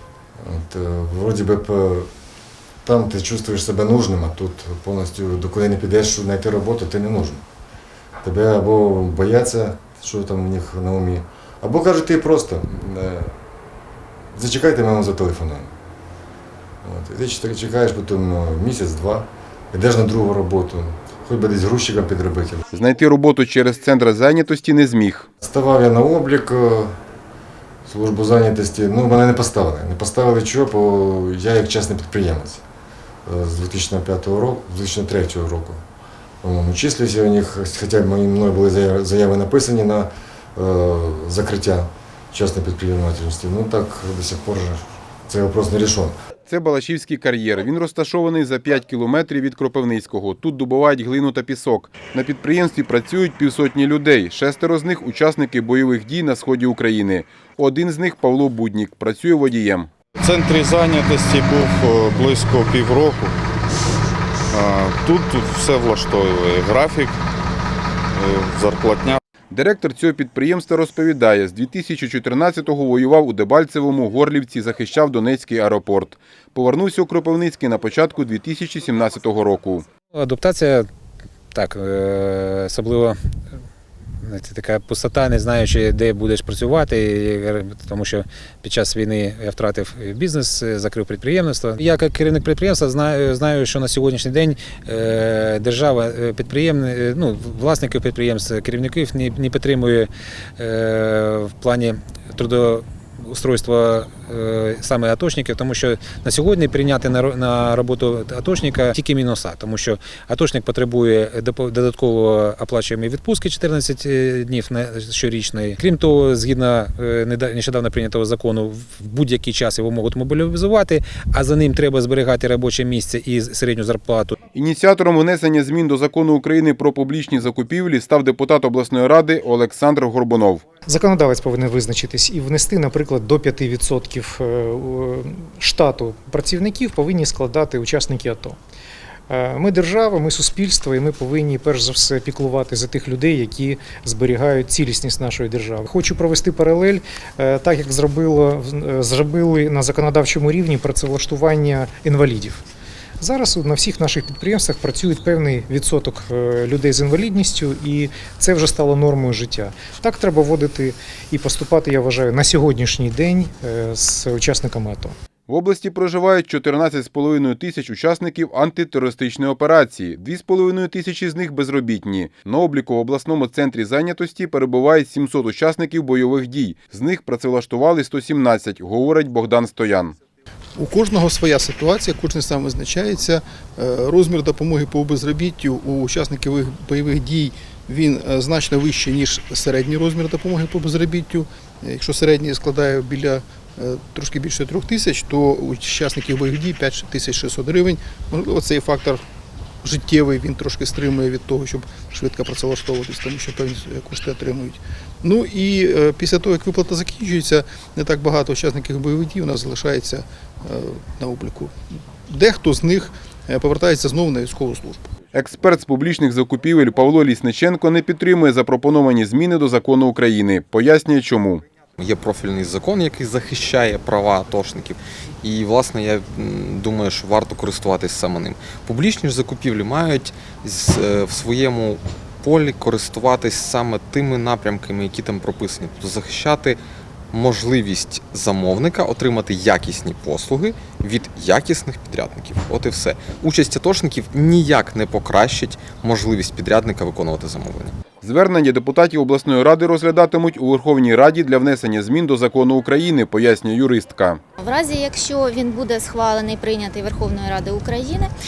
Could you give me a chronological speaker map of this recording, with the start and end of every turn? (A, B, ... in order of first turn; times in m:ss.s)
0:00.4-0:02.1 A
0:02.8-0:07.4 A
0:08.2-0:13.3 A
0:14.3-0:15.7 A
0:16.8-0:22.6 A
0:22.7-0:25.3 B
0:25.4-0:27.0 A
0:27.9-0:32.6 A
0:33.3-0:35.8 A
0:36.4-0:46.1 A
0:46.5-0:59.9 B
1:00.2-1:03.4 C
1:04.5-1:07.2 C
1:08.1-1:09.2 C
1:09.5-1:19.9 B
1:20.1-1:20.9 D
1:21.5-1:23.2 D
1:24.2-2:04.4 D
2:04.5-2:10.6 B
2:10.9-2:18.6 E
2:19.3-2:32.6 E
2:33.2-2:45.2 E
2:45.5-3:00.2 B
3:00.8-3:19.2 F
3:19.8-3:31.7 F
3:32.3-3:35.1 F
3:35.3-3:41.6 B
3:42.0-3:56.8 G
3:57.3-4:08.0 G
4:08.2-4:14.4 B
4:14.6-4:18.3 H